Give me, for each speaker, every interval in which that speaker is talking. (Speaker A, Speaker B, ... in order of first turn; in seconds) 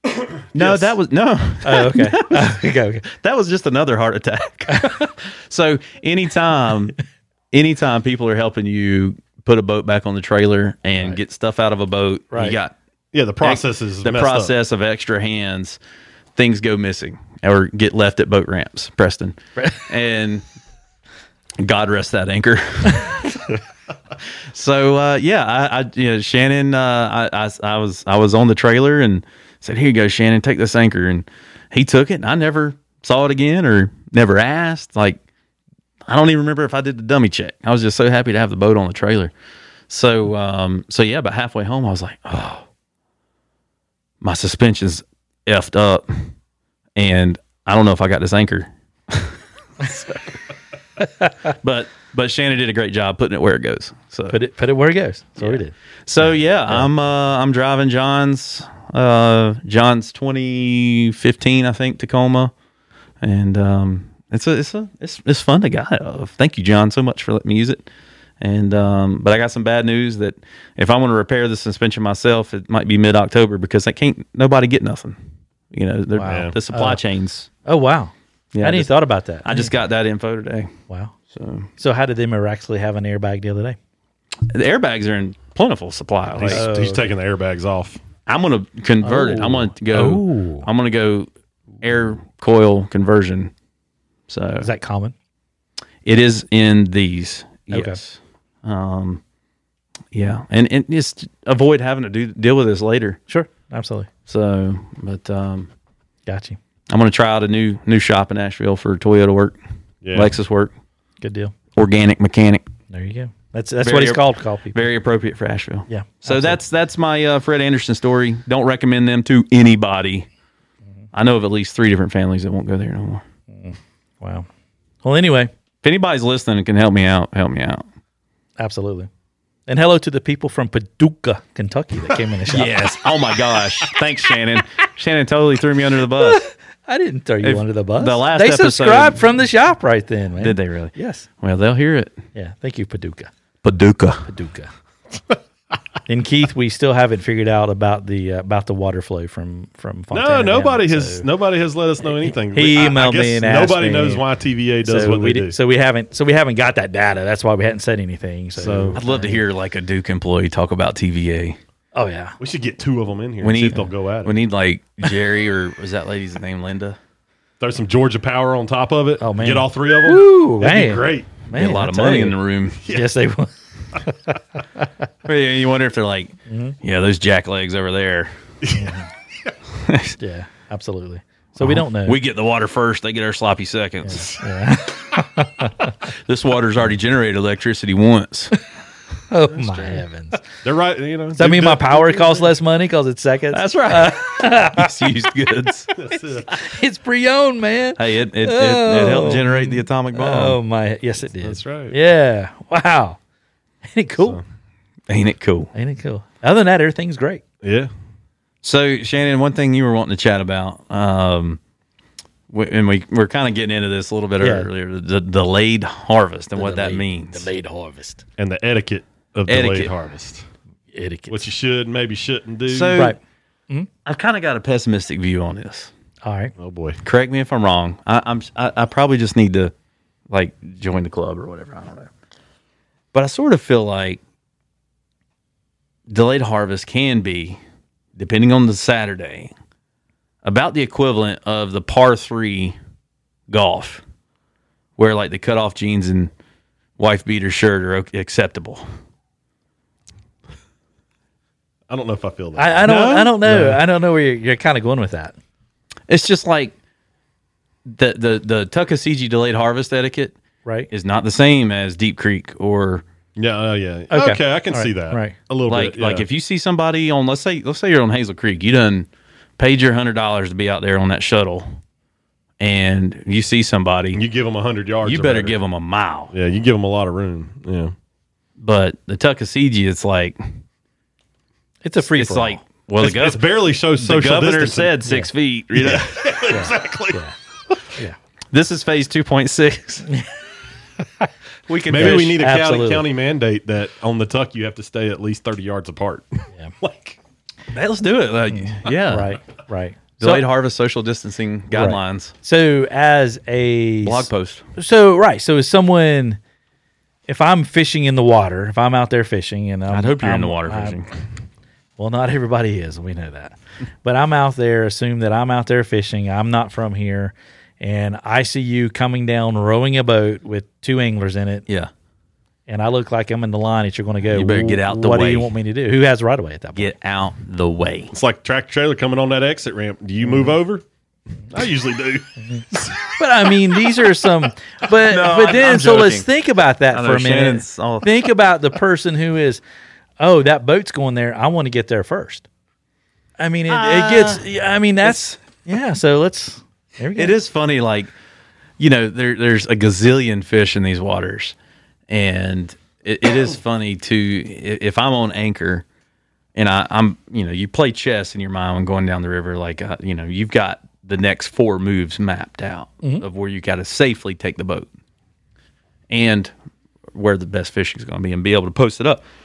Speaker A: 0.2-0.9, 13.1-14.5, 76.2-76.5, 86.3-88.0, 110.0-110.3, 150.1-155.6, 158.6-159.0, 162.4-164.3, 167.6-171.3, 172.8-173.1, 178.6-178.9, 190.6-192.5, 196.0-196.5, 201.4-201.9, 207.6-207.9, 218.4-220.4, 221.3-223.1, 226.6-227.0, 251.9-252.9, 263.4-266.3, 274.1-275.6, 276.3-277.9, 283.0-285.0, 285.7-287.8, 291.9-297.2, 328.1-330.8, 331.5-333.1
Speaker B: 0.5-7.0, 7.5-12.7, 13.4-15.8, 16.4-20.4, 21.6-23.3, 24.5-35.2, 36.1-39.3, 39.9-42.6, 44.2-46.3, 47.0-49.4, 51.4-54.4, 55.4-62.5, 63.2-67.8, 68.4-75.2, 75.7-77.5, 78.5-78.9, 79.4-80.7, 81.3-81.7, 84.5-86.6, 88.3-91.3, 91.8-93.5, 94.3-94.7, 96.0-99.2, 100.1-103.2, 104.3-105.7, 106.9-109.6, 110.1-110.7, 111.7-112.6, 113.8-120.3, 121.1-123.2, 125.8-127.8, 132.5-136.4, 137.4-139.3, 140.4-142.2, 143.6-144.3, 158.9-161.6, 163.4-167.0, 171.5-172.8, 175.2-178.3, 179.8-180.2, 181.6-184.4, 186.2-188.5, 189.6-190.0, 193.5-196.0, 198.0-200.6, 205.1-205.7, 208.6-211.6, 212.5-217.5, 219.5-219.9, 222.7-223.2, 224.1-225.9, 227.0-229.7, 230.3-232.1, 233.1-234.2, 236.1-237.6, 238.2-239.5, 240.4-242.8, 243.5-244.0, 245.0-246.3, 247.0-248.8, 252.8-253.7, 256.1-256.7, 257.9-260.3, 260.9-263.0, 265.7-271.7, 272.6-274.2, 275.0-276.3, 278.6-280.4, 282.0-286.4, 288.5-290.1, 291.7-292.4, 297.7-299.3, 300.2-302.3, 304.0-304.6, 309.9-311.1, 324.3-325.5, 326.8-328.1, 335.1-336.3, 336.9-338.2, 343.7-344.4, 347.1-348.1, 348.8-351.5, 352.1-355.8, 356.5-364.9, 366.1-366.5, 367.1-369.2
Speaker C: 1.6-3.0, 4.7-5.0, 12.3-12.6, 54.3-55.7, 76.1-77.0, 77.7-79.7, 80.9-81.1, 81.8-83.8, 86.4-87.1, 89.0-90.7, 94.6-95.1, 97.7-98.0, 103.3-104.1, 106.2-106.6, 111.2-111.5, 112.9-114.8, 115.9-116.6, 123.5-124.5, 125.0-125.5, 128.6-129.1, 129.7-132.8, 136.2-141.3, 142.3-143.3, 144.2-144.7, 146.1-151.2, 152.0-154.2, 154.8-159.4, 161.9-162.4, 169.2-174.9, 176.5-176.8, 178.7-179.1, 180.2-182.2, 184.0-185.9, 189.3-190.4, 191.3-195.1, 196.4-203.2, 203.8-204.4, 205.7-207.4, 214.4-214.7, 216.5-218.2, 220.9-221.5, 226.2-226.5, 252.6-255.3, 264.1-265.4, 281.8-282.6, 285.0-285.3, 286.4-287.3, 291.9-293.1, 298.5-300.4, 301.7-306.4, 307.3-311.0, 312.0-321.6, 322.7-326.9, 330.2-330.5, 333.1-339.6, 340.2-342.5, 343.4-347.4